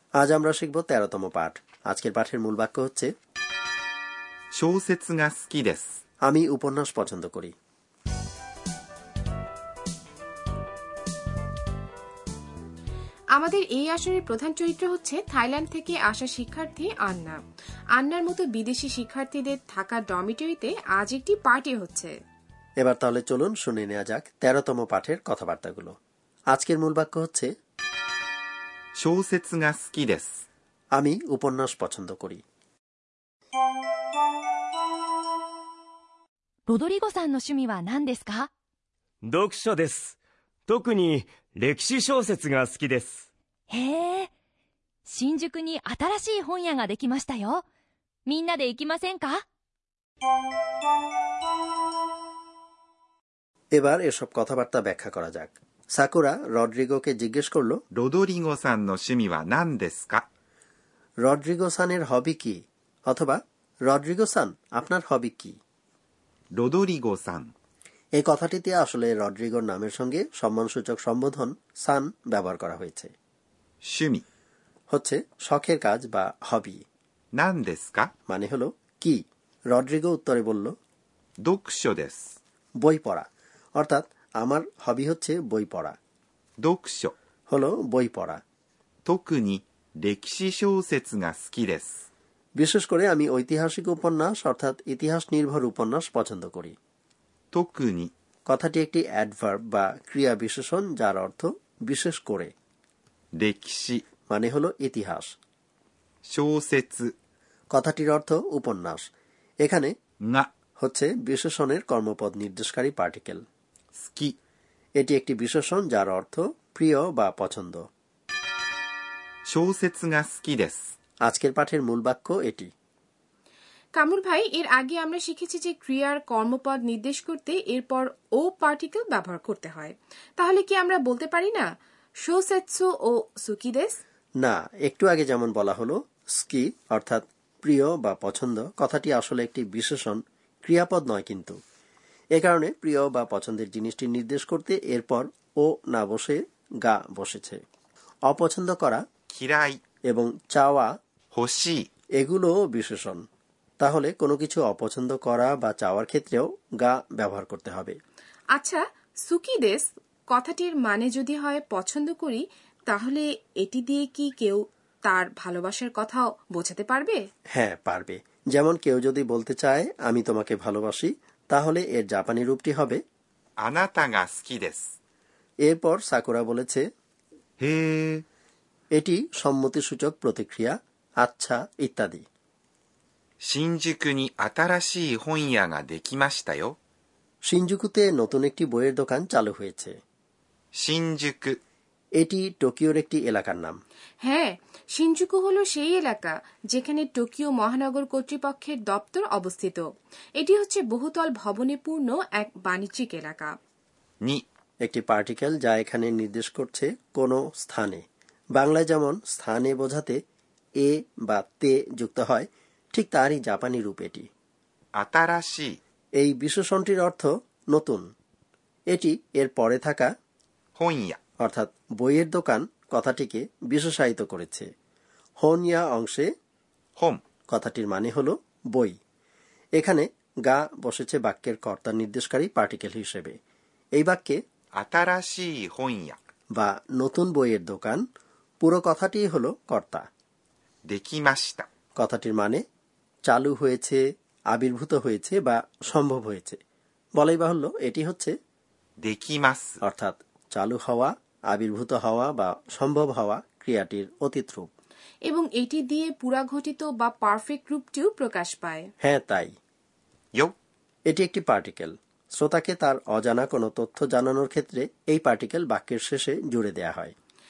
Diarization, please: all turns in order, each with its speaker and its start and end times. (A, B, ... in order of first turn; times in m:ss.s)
0:00.2-0:03.1 A
0:04.6-0:05.9 B
0:06.2-0:07.5 A
0:13.3-0:17.4 C
0:18.0-0:22.1 C
0:22.8-0:25.9 A
0:26.5-0:27.5 A
0:29.0-0:30.4 B
0:30.9-0:32.4 A
0:36.7-0:38.5 D
0:39.2-0:43.3 E
0:43.7-0:44.3 D
0:45.1-0:47.6 D
0:48.2-0:49.4 D
0:53.7-0:57.8 A
0:57.9-1:00.2 B
1:01.2-1:05.6 A
1:06.6-1:07.5 B
1:08.2-1:13.1 A
1:13.9-1:14.2 B
1:14.9-1:16.8 A
1:17.4-1:18.1 B
1:18.3-1:19.2 A
1:19.7-1:20.7 A
1:21.4-1:22.3 B
1:22.8-1:23.2 A
1:23.8-1:25.9 A
1:26.6-1:27.1 B
1:27.5-1:28.4 A
1:29.0-1:31.9 B
1:32.6-1:36.7 A
1:37.5-1:38.1 B
1:38.5-1:42.5 A
1:43.4-1:44.0 B
1:44.3-1:45.3 A
1:46.3-1:47.1 B
1:47.7-1:49.1 A
1:49.6-1:49.9 A
1:50.8-1:53.4 A
1:54.0-1:54.3 B
1:55.0-1:57.8 A
1:59.5-2:00.8 B
2:01.2-2:02.7 A
2:04.0-2:11.6 C
2:12.2-2:13.9 C
2:14.4-2:21.5 A
2:22.4-2:27.6 A
2:28.3-2:29.0 A
2:29.3-2:29.8 B
2:30.1-2:30.9 A
2:31.3-2:31.8 B
2:32.2-2:33.2 A
2:33.8-2:38.0 A
2:38.5-2:47.2 C
2:47.5-2:53.0 A
2:53.6-2:54.8 B
2:55.6-2:56.8 A
2:57.6-2:58.2 B
2:58.9-3:02.2 A
3:03.5-3:06.7 B
3:07.5-3:09.9 A
3:10.8-3:11.6 B
3:12.2-3:13.8 A
3:14.2-3:19.8 C
3:20.4-3:23.5 C
3:24.8-3:28.0 A
3:28.5-3:30.2 A
3:30.8-3:34.2 A
3:35.0-3:35.8 B
3:36.2-3:38.0 A
3:38.9-3:40.1 A
3:40.8-3:41.2 B
3:41.4-3:44.6 A
3:45.4-3:46.3 A
3:47.5-3:48.9 A
3:49.8-3:53.3 A
3:54.0-3:54.4 A
3:54.8-3:56.2 B
3:56.5-3:58.0 A
3:58.6-4:00.0 A
4:00.9-4:01.7 B
4:02.0-4:02.6 A
4:03.3-4:04.0 A
4:04.5-4:06.6 A
4:07.2-4:08.3 A
4:09.0-4:09.6 B
4:09.8-4:14.7 A
4:15.3-4:18.9 C
4:19.0-4:19.5 A
4:21.1-4:27.1 A